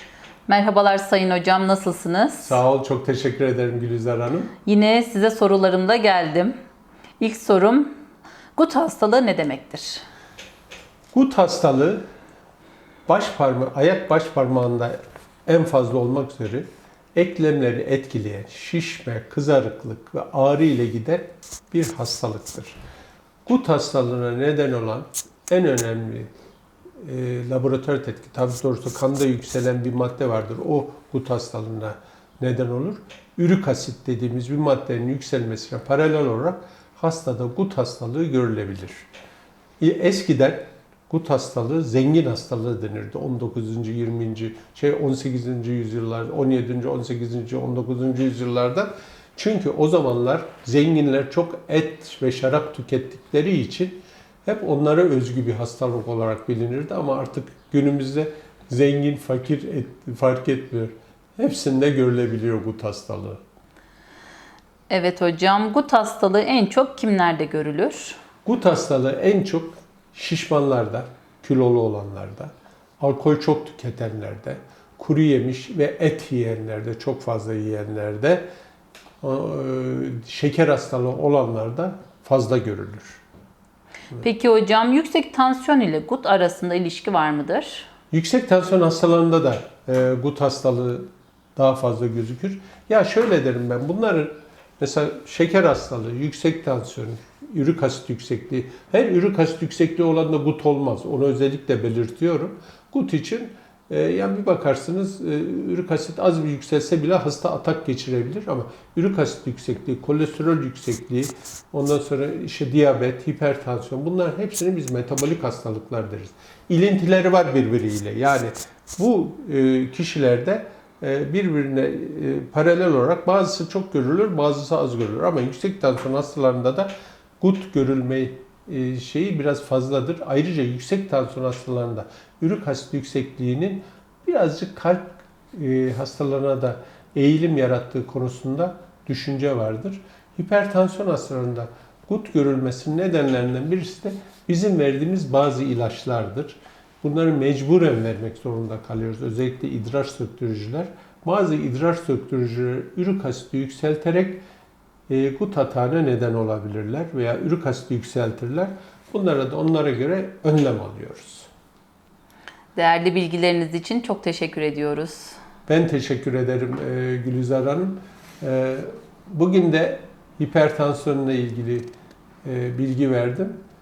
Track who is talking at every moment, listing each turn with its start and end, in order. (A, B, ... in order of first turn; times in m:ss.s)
0:00.5-0:02.6 A
0:02.4-0:04.5 B
0:04.6-0:06.5 A
0:07.2-0:07.9 A
0:08.6-0:10.0 A
0:11.1-0:12.0 B
0:13.1-0:22.8 B
0:23.4-0:26.3 B
0:27.0-0:39.0 B
0:39.8-1:03.4 B
1:04.9-1:08.2 A
1:08.4-1:18.4 B
1:19.2-1:23.2 B
1:24.2-1:27.9 A
1:28.1-2:34.4 B
2:35.1-2:41.5 B
2:42.8-2:45.4 A
2:45.7-2:51.9 B
2:52.4-2:53.6 B